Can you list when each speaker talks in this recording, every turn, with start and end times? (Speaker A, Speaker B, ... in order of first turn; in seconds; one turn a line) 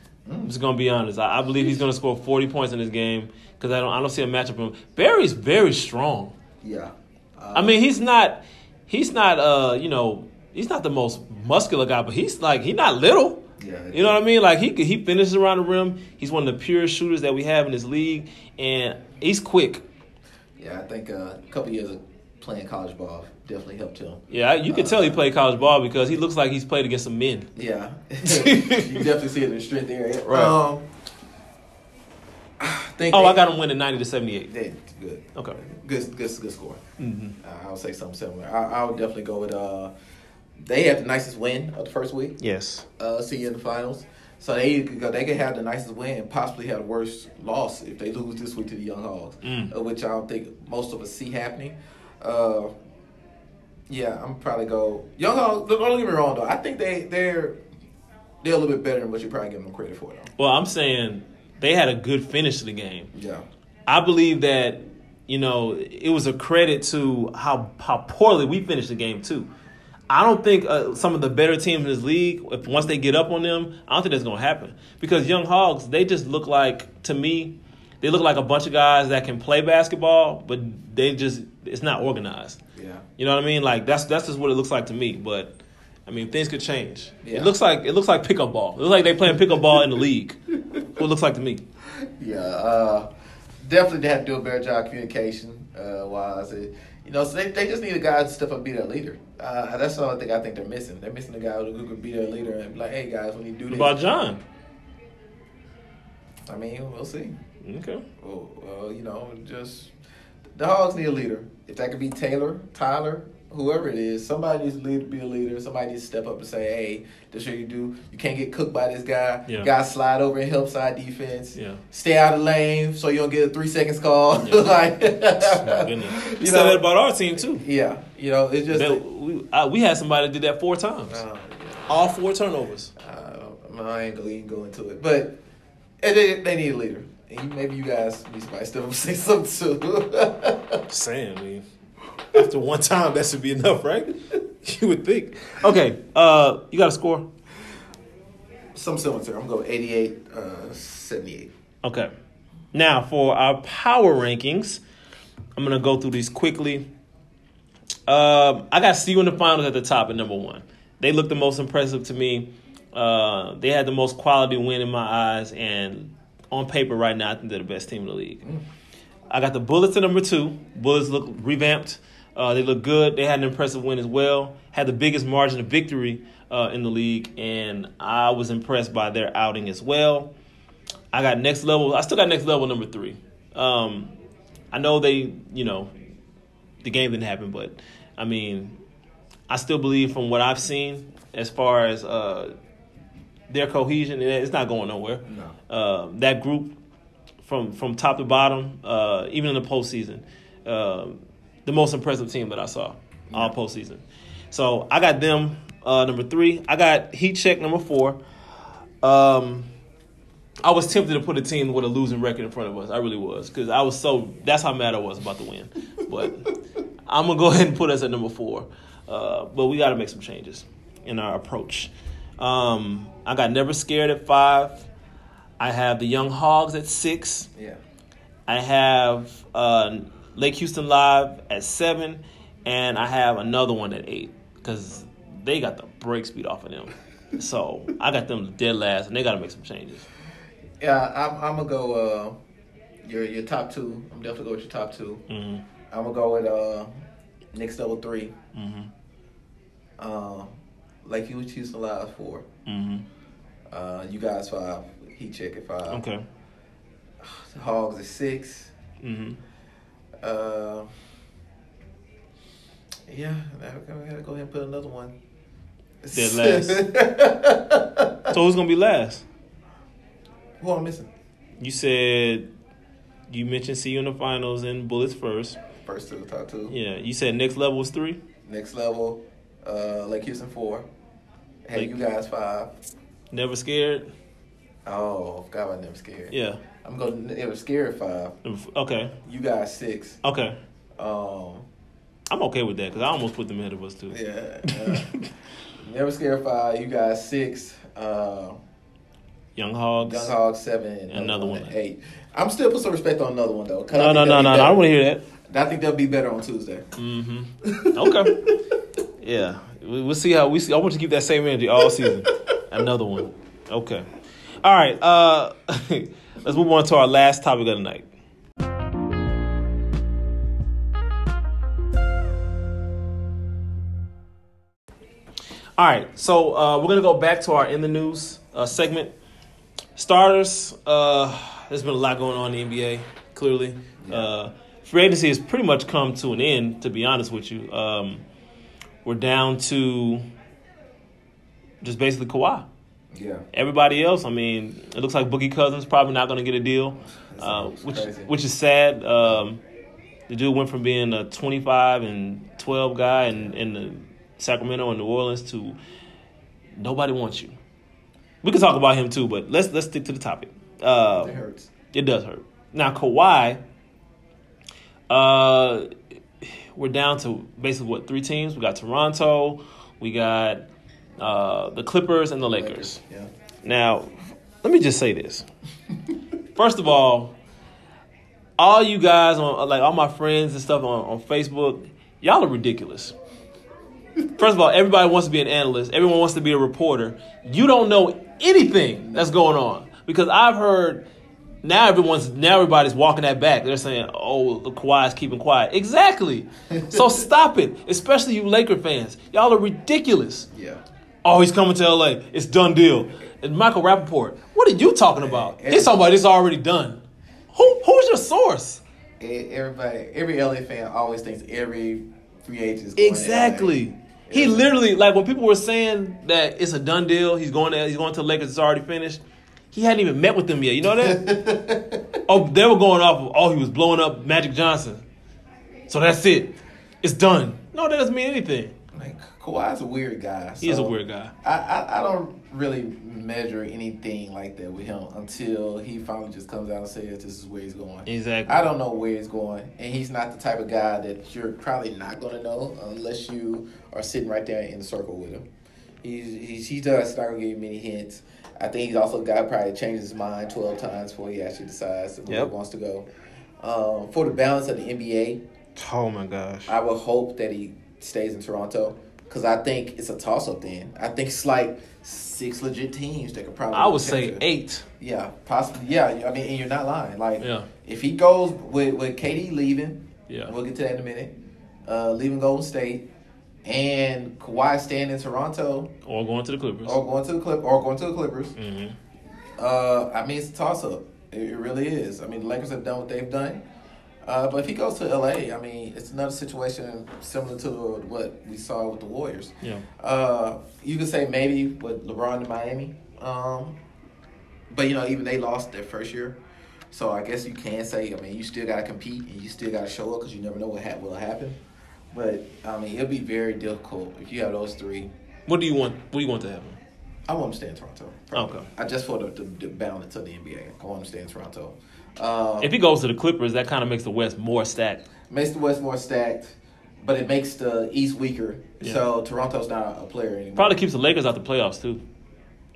Speaker A: 0.3-0.5
Speaker B: 0.4-6.3
Speaker A: 6.6-7.8
Speaker B: 7.5-19.8
Speaker A: 13.6-14.2
Speaker A: 20.6-25.2
Speaker B: 24.3-27.5
Speaker A: 27.6-30.9
Speaker B: 28.2-29.1
Speaker B: 30.3-30.6
Speaker A: 32.6-33.5
Speaker B: 33.1-34.5
Speaker A: 34.5-36.8
Speaker B: 37.0-37.4
Speaker A: 37.4-39.9
Speaker A: 40.6-42.4
Speaker B: 42.4-42.9
Speaker A: 43.0-52.7
Speaker B: 49.4-49.7
Speaker A: 53.9-57.6
Speaker A: 58.4-60.3
Speaker B: 60.4-63.1
Speaker A: 63.1-63.5
Speaker B: 63.9-69.5
Speaker B: 70.1-82.6
Speaker A: 82.8-83.0
Speaker B: 83.2-85.6
Speaker B: 86.1-91.6
Speaker A: 87.2-87.5
Speaker A: 92.0-93.1
Speaker A: 93.6-104.0
Speaker B: 103.7-104.4
Speaker A: 106.5-107.4
Speaker B: 107.6-108.0
Speaker A: 108.2-109.9
Speaker A: 110.6-129.0
Speaker B: 121.5-121.8
Speaker B: 124.4-124.7
Speaker B: 125.4-127.6
Speaker B: 128.7-131.2
Speaker A: 131.1-131.9
Speaker B: 131.9-132.9
Speaker A: 133.0-135.4
Speaker A: 136.0-140.8
Speaker B: 140.9-141.6
Speaker B: 142.3-147.3
Speaker A: 148.8-151.5
Speaker B: 151.8-152.1
Speaker B: 152.7-154.8
Speaker B: 155.6-156.9
Speaker B: 158.1-168.4
Speaker B: 169.3-180.3
Speaker B: 181.1-184.1
Speaker B: 184.7-185.9
Speaker B: 186.8-188.8
Speaker B: 189.5-192.5
Speaker B: 193.5-196.8
Speaker A: 195.3-195.5
Speaker B: 197.4-208.2
Speaker B: 209.0-209.7
Speaker B: 210.6-224.9
Speaker B: 225.6-227.5
Speaker B: 228.5-240.1
Speaker A: 240.8-242.4
Speaker A: 243.0-245.2
Speaker B: 245.3-245.6
Speaker A: 245.9-246.9
Speaker A: 247.5-248.3
Speaker B: 248.5-248.9
Speaker A: 250.0-250.5
Speaker A: 251.0-252.5
Speaker B: 252.7-253.1
Speaker A: 253.7-256.0
Speaker B: 255.9-256.2
Speaker A: 257.2-258.7
Speaker B: 259.0-259.4
Speaker A: 260.2-260.9
Speaker A: 263.1-265.1
Speaker A: 266.0-268.3
Speaker B: 266.1-266.8
Speaker B: 268.3-269.2
Speaker A: 270.6-271.1
Speaker B: 271.6-272.5
Speaker B: 273.3-275.6
Speaker A: 275.8-276.8
Speaker B: 276.7-278.2
Speaker A: 278.5-280.9
Speaker A: 281.7-282.7
Speaker B: 283.3-284.1
Speaker A: 284.9-288.3
Speaker B: 286.3-286.6
Speaker B: 288.4-289.1
Speaker A: 289.2-290.2
Speaker B: 290.2-290.6
Speaker A: 291.0-291.7
Speaker B: 292.3-295.3
Speaker A: 294.1-295.2
Speaker A: 295.8-298.6
Speaker B: 299.6-300.3
Speaker A: 300.0-304.8
Speaker B: 301.1-301.8
Speaker B: 303.9-305.2
Speaker A: 305.5-306.9
Speaker B: 307.0-308.5
Speaker A: 307.6-308.6
Speaker B: 309.2-314.1
Speaker A: 311.9-312.1
Speaker B: 314.6-318.1
Speaker B: 325.8-329.1
Speaker B: 330.0-338.2
Speaker A: 334.0-334.3
Speaker B: 339.1-340.2
Speaker B: 341.8-342.7
Speaker A: 343.1-343.4
Speaker B: 343.5-349.6
Speaker A: 347.1-348.3
Speaker B: 350.3-355.8
Speaker A: 353.3-353.6
Speaker B: 356.8-357.5
Speaker B: 358.4-361.4
Speaker A: 361.1-361.7
Speaker B: 361.9-363.6
Speaker B: 365.1-365.9
Speaker B: 366.4-370.7
Speaker B: 371.2-373.0
Speaker A: 372.5-373.3
Speaker B: 373.6-375.5
Speaker B: 376.6-377.3
Speaker B: 378.6-383.1
Speaker B: 384.4-391.1
Speaker B: 391.6-400.5
Speaker A: 396.7-397.1
Speaker A: 400.5-400.8
Speaker B: 401.2-407.0
Speaker A: 405.2-406.0
Speaker B: 407.5-408.8
Speaker A: 409.2-414.7
Speaker B: 413.0-419.2
Speaker B: 419.7-421.3
Speaker A: 420.9-422.2
Speaker B: 422.3-425.0
Speaker B: 425.9-428.8
Speaker A: 428.9-445.4
Speaker B: 430.6-431.3
Speaker B: 438.1-438.6
Speaker A: 446.0-453.1
Speaker B: 452.3-452.5
Speaker A: 453.6-455.4
Speaker B: 455.8-456.8
Speaker A: 456.7-464.4
Speaker B: 463.7-464.9
Speaker A: 465.0-471.3
Speaker B: 467.4-467.7
Speaker A: 471.9-473.1
Speaker A: 473.6-475.9
Speaker B: 476.1-477.0
Speaker A: 476.9-478.6
Speaker B: 478.6-478.9
Speaker A: 479.6-483.6
Speaker A: 484.2-493.8
Speaker A: 494.7-496.4
Speaker A: 496.9-501.6
Speaker A: 502.1-505.1
Speaker B: 505.5-506.8
Speaker A: 507.3-512.7
Speaker B: 508.4-508.7
Speaker B: 512.6-515.0
Speaker A: 515.3-520.8
Speaker B: 520.6-522.0